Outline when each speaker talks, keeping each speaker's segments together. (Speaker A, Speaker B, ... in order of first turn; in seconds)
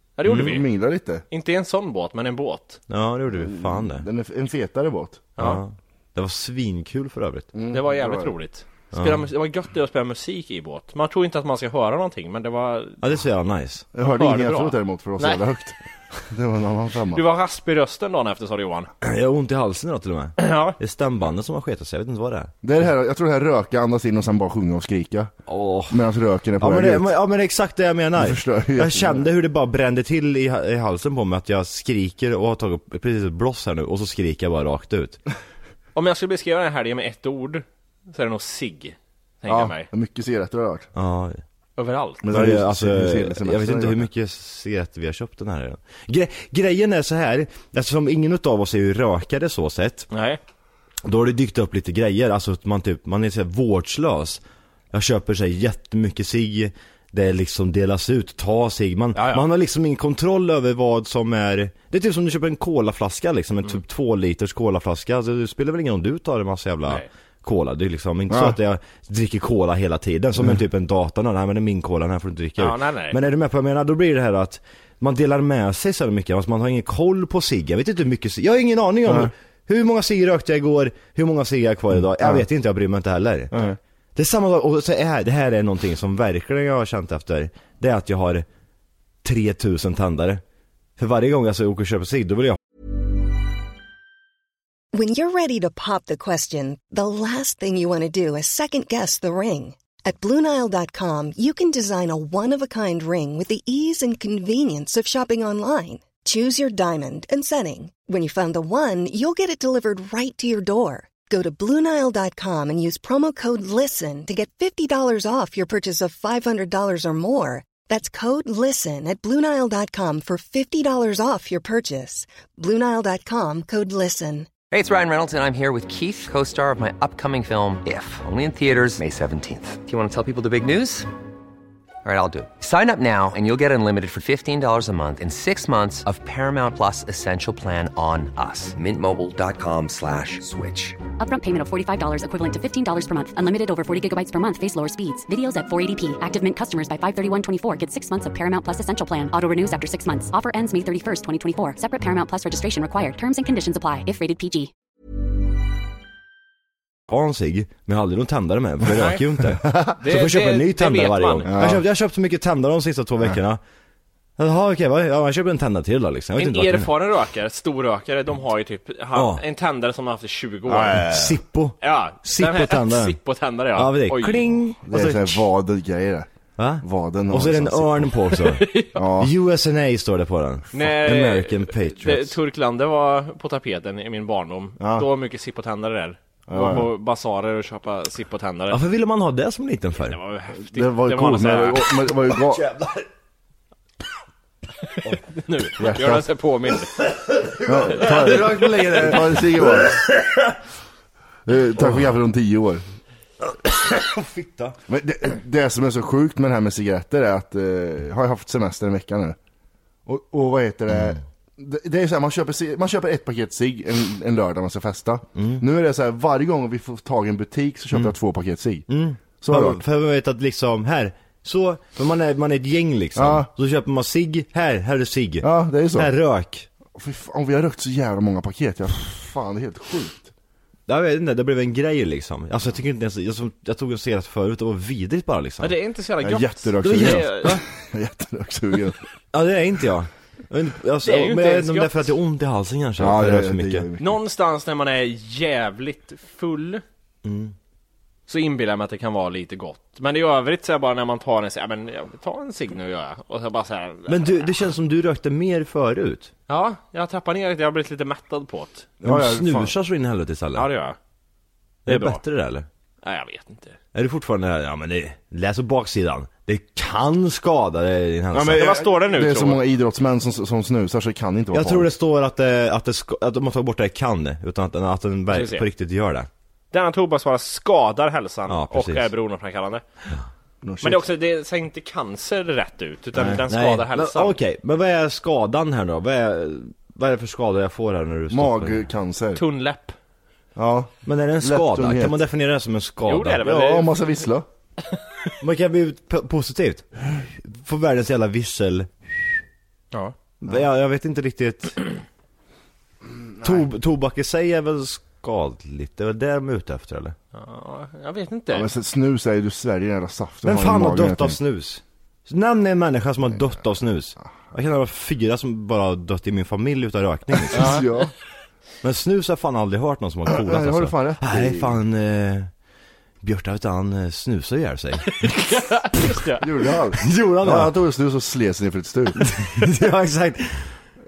Speaker A: 0.2-0.7, 1.3-2.8, 7.7-13.0, 14.0-15.4, 17.1-18.9, 20.4-20.8, 36.0-39.9, 41.8-42.2, 50.1-50.4, 59.1-59.5, 72.6-73.2, 159.0-159.2, 160.0-161.5, 166.4-171.0, 171.8-174.4, 178.3-179.0, 180.7-188.8, 190.1-191.9, 195.3-196.9, 235.6-237.6, 241.1-242.1, 244.0-246.8, 248.3-254.5, 256.5-258.9, 260.6-261.0, 261.9-262.2, 263.0-263.8, 268.5-269.6, 275.3-275.7, 276.7-279.8, 280.8-284.4, 289.4-290.0, 293.1-293.9, 294.9-295.3, 307.3-308.7, 317.5-318.1, 325.2-326.4
Speaker B: 0.3-0.6, 2.9-4.0, 5.4-7.5, 8.9-9.2, 13.0-13.9, 19.0-22.5, 25.5-26.0, 26.6-35.2, 41.0-41.4, 42.3-50.1, 51.0-54.4, 54.9-88.5, 89.2-90.4, 91.0-92.6, 157.1-163.6, 164.4-166.9, 169.1-169.4, 171.0-173.2, 173.8-175.5, 176.6-182.4, 188.7-190.2, 192.2-193.1, 197.0-200.6, 201.8-202.1, 203.4-204.8, 210.9-211.2, 215.3-215.6, 218.9-226.7, 230.9-235.8, 236.8-237.6, 239.3-243.9, 247.2-247.6, 254.1-256.3, 259.0-260.7, 261.9-262.7, 263.9-268.8, 271.5-276.3, 278.5-279.1, 283.1-288.9, 291.1-293.4, 295.4-299.3, 300.4-301.8, 303.4-307.2, 310.4-317.8, 318.8-322.5, 323.2-325.3, 327.0-327.7, 329.2-330.8
Speaker C: 0.3-1.2, 3.4-5.3, 7.5-8.3, 13.9-17.2, 22.6-25.3, 25.9-27.1, 28.2-29.2, 39.5-40.9, 42.2-44.0, 161.4-161.8, 170.7-171.4, 174.9-176.3, 176.8-178.1, 179.0-179.3, 184.8-185.1, 186.5-186.9, 190.6-192.6, 195.8-196.2, 197.7-200.0, 201.5-202.8, 204.9-209.4, 210.1-218.9, 219.4-219.8, 223.2-223.5, 225.4-226.1, 226.9-230.3, 236.2-239.1, 243.0-244.2, 259.0-259.7, 268.3-271.9, 280.6-281.0, 288.3-289.4, 290.6-292.2, 293.4-294.4, 308.5-311.4, 317.5-318.1, 320.3-321.7, 326.4-329.2
Speaker D: 94.9-124.5
Speaker E: 124.7-131.1, 132.1-141.0
Speaker F: 141.2-154.7